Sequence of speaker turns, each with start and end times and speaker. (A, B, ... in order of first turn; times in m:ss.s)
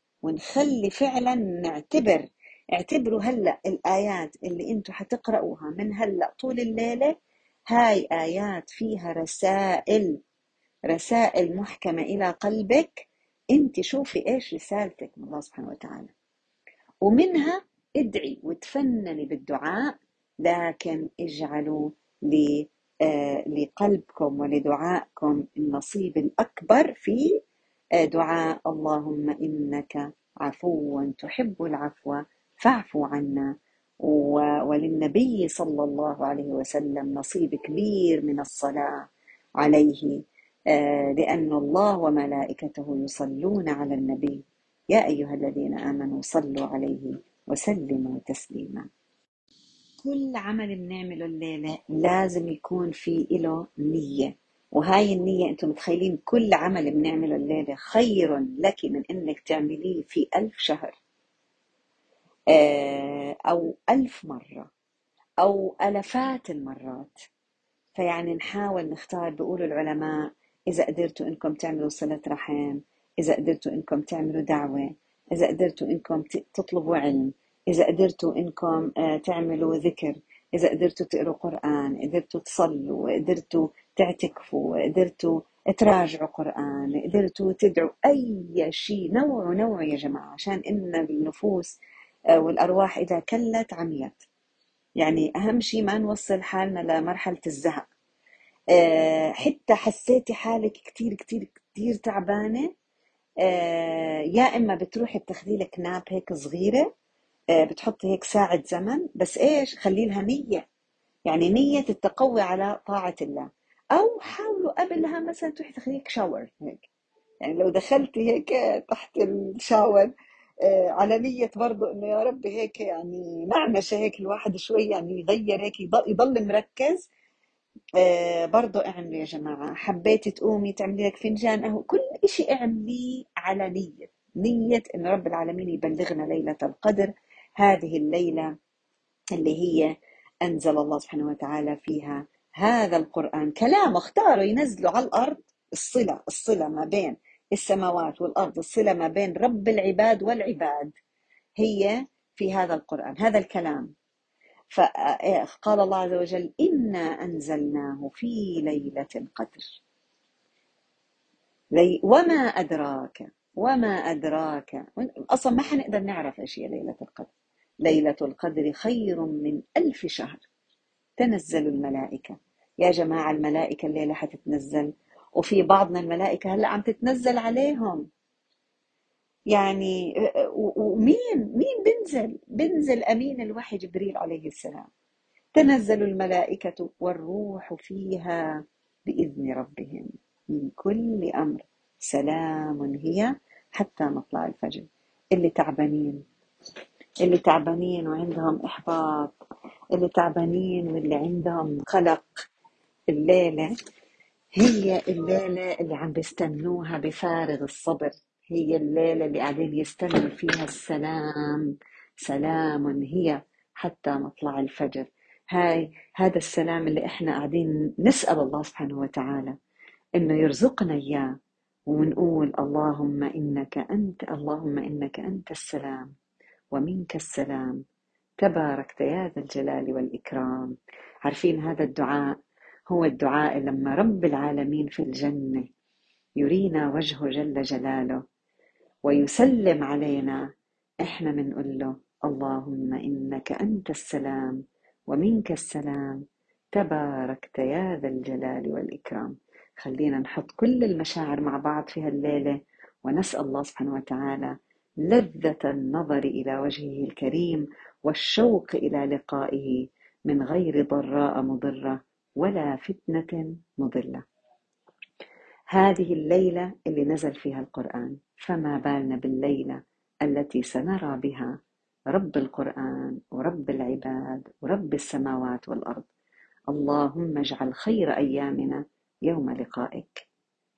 0:00.2-0:07.2 A
0:07.7-0:10.2 A
0:10.9-0:16.1 A
0:17.0-0:27.4 A
0:28.0-0:39.1 A
0:39.6-0:40.2 A
0:40.7-0:48.9 A
0:50.0-1:01.0 A
1:02.5-1:04.7 A
1:05.4-1:07.2 A
1:08.0-1:31.8 A
1:32.4-1:34.2 A
1:35.0-1:37.9 A
1:38.7-1:42.7 A
1:43.4-1:46.9 A
1:47.6-1:50.6 A
1:51.3-1:56.9 A
1:57.4-2:00.1 A
2:00.6-2:07.1 A
2:08.0-2:18.5 A
2:19.4-2:19.9 A
2:20.4-2:30.9 A
2:31.6-2:33.9 A
2:34.7-2:39.8 A
2:41.8-2:47.3 A
2:47.8-2:50.4 A
2:51.2-2:58.1 A
2:59.5-3:04.9 A
3:05.6-3:08.4 A
3:09.1-3:16.2 A
3:17.2-3:19.3 A
3:20.0-3:22.4 A
3:23.1-3:23.7 A
3:24.6-3:31.7 A
3:32.2-3:39.6 A
3:40.2-3:41.4 A
3:41.9-3:46.1 A
3:46.7-3:47.8 A
3:48.4-3:52.3 A
3:52.9-3:55.7 A
3:56.4-3:58.2 A
3:59.0-4:00.5 A
4:01.0-4:24.2 A
4:25.7-4:31.6 A
4:32.1-4:36.0 A
4:36.7-4:40.3 A